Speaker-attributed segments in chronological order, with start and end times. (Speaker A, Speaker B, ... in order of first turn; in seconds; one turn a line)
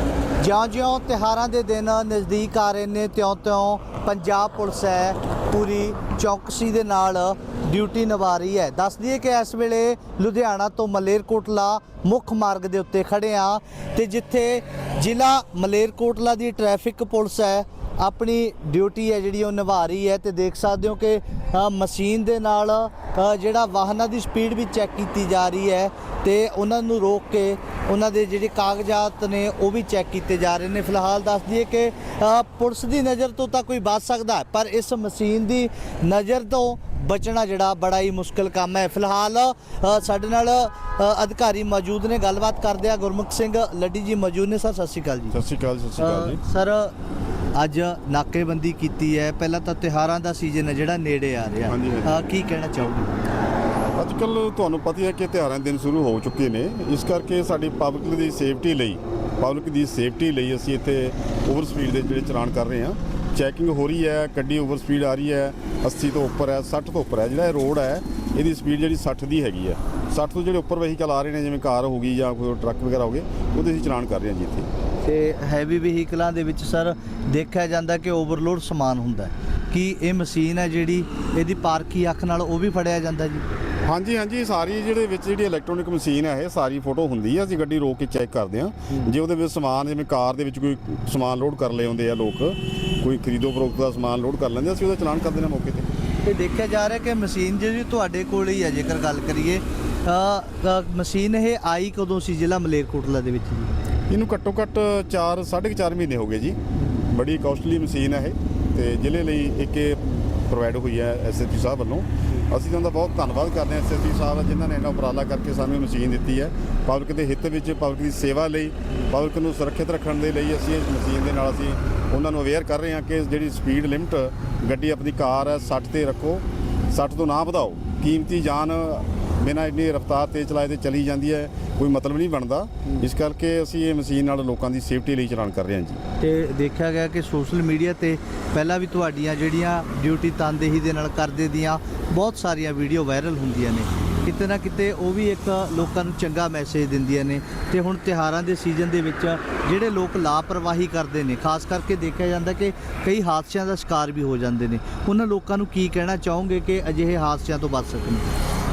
Speaker A: 0.4-45.3
Speaker B: 45.3-46.4
Speaker A: 46.0-46.9
Speaker A: 47.5-53.2
Speaker B: 51.7-52.3
Speaker B: 54.0-74.7
Speaker A: 75.0-83.5
Speaker B: 83.8-95.9
Speaker A: 96.2-103.7
Speaker B: 104.1-106.6
Speaker B: 107.1-136.0
Speaker A: 136.2-158.3